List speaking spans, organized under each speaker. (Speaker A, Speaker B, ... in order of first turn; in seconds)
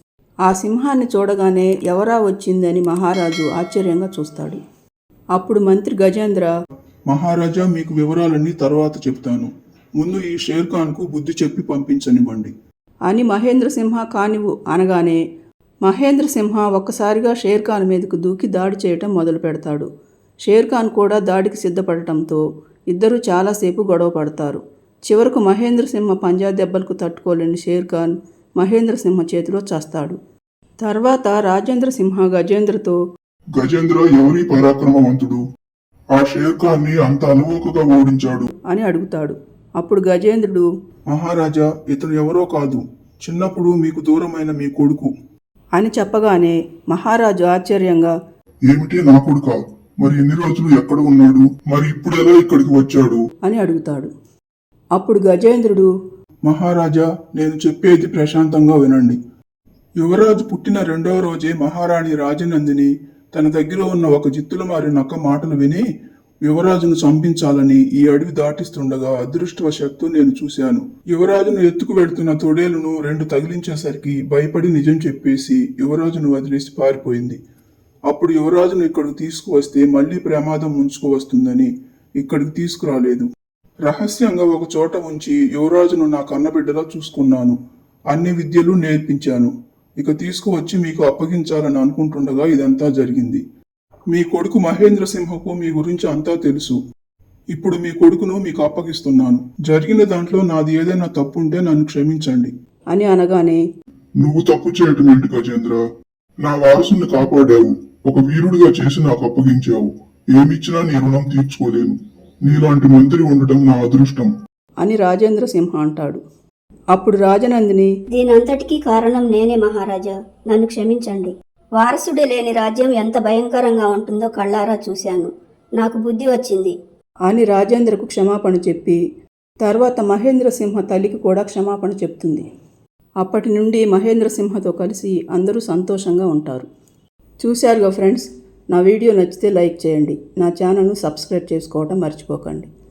Speaker A: 0.5-4.6, 5.3-6.5, 13.1-15.2, 15.8-19.9, 20.4-30.1, 30.8-33.0, 38.7-40.7, 45.8-48.1, 53.4-54.1, 55.0-55.9, 102.9-103.6, 114.8-116.2, 116.9-117.9, 127.3-129.0, 129.6-132.4, 133.2-136.7, 137.4-142.7
Speaker B: 7.1-12.5, 41.1-45.1, 56.4-59.2, 60.0-65.8, 66.4-77.4, 78.1-83.3, 83.8-87.5, 88.1-93.4, 94.1-96.8, 97.5-102.5
Speaker C: 33.5-35.4, 36.1-38.5, 48.7-53.2, 104.2-105.8, 106.4-114.3
Speaker D: 118.1-126.7